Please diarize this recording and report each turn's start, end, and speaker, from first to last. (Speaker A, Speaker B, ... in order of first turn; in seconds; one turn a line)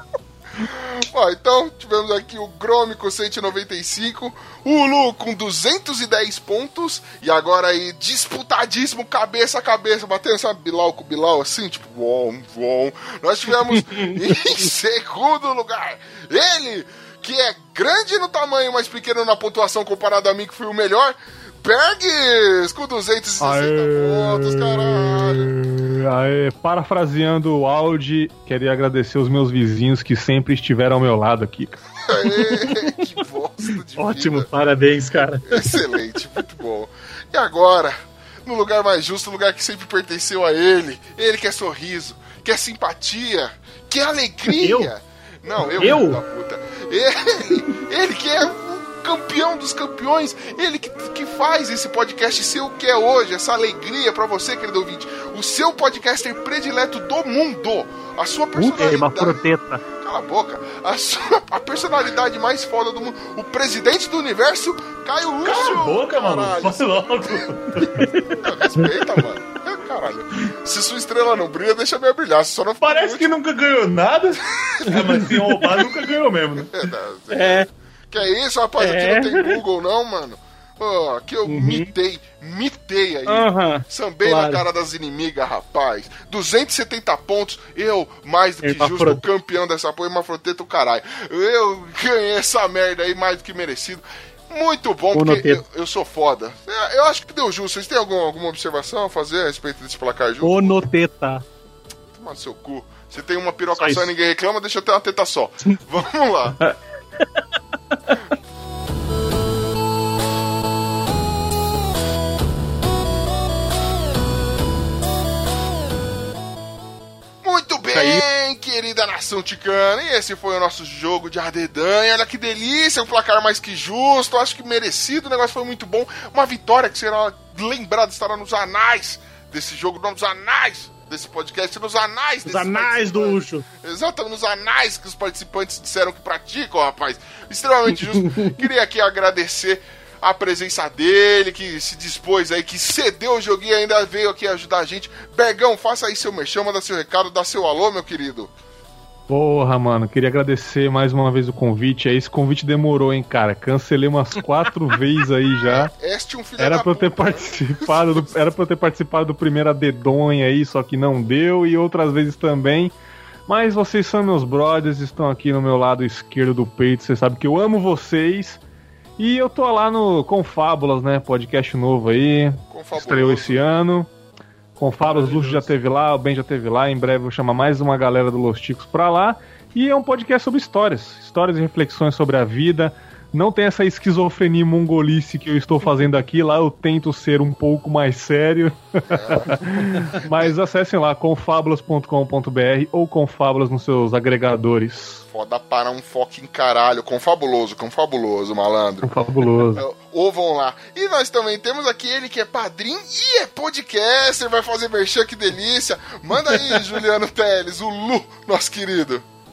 Speaker A: 0.6-25.5
Speaker B: 13.7-14.1
Speaker C: 23.4-31.8
Speaker A: 32.1-34.5
Speaker B: 32.3-32.9
Speaker B: 34.0-35.7
Speaker A: 35.5-59.4
Speaker B: 44.5-44.9
Speaker B: 45.8-46.2
Speaker B: 58.6-59.8
Speaker A: 60.0-67.5
Speaker D: 65.5-68.1
Speaker A: 68.3-73.3
Speaker D: 72.8-76.7
Speaker A: 74.6-74.8
Speaker A: 76.7-100.7
Speaker B: 77.3-77.7
Speaker B: 78.8-79.6
Speaker B: 81.5-81.9
Speaker B: 83.3-84.6
Speaker B: 88.6-89.2
Speaker B: 95.1-95.6
Speaker B: 100.4-101.4
Speaker A: 102.1-106.6
Speaker B: 103.8-104.1
Speaker A: 117.4-148.5
Speaker B: 117.9-118.2
Speaker B: 132.5-133.7
Speaker B: 138.1-138.6
Speaker C: 149.3-155.9
Speaker A: 155.7-158.5
Speaker C: 156.6-162.9
Speaker C: 163.5-168.6
Speaker C: 169.2-174.1
Speaker A: 172.7-173.7
Speaker C: 174.8-195.2
Speaker B: 175.0-175.7
Speaker A: 189.1-189.7
Speaker A: 195.3-199.1
Speaker C: 199.0-199.8
Speaker A: 199.7-209.2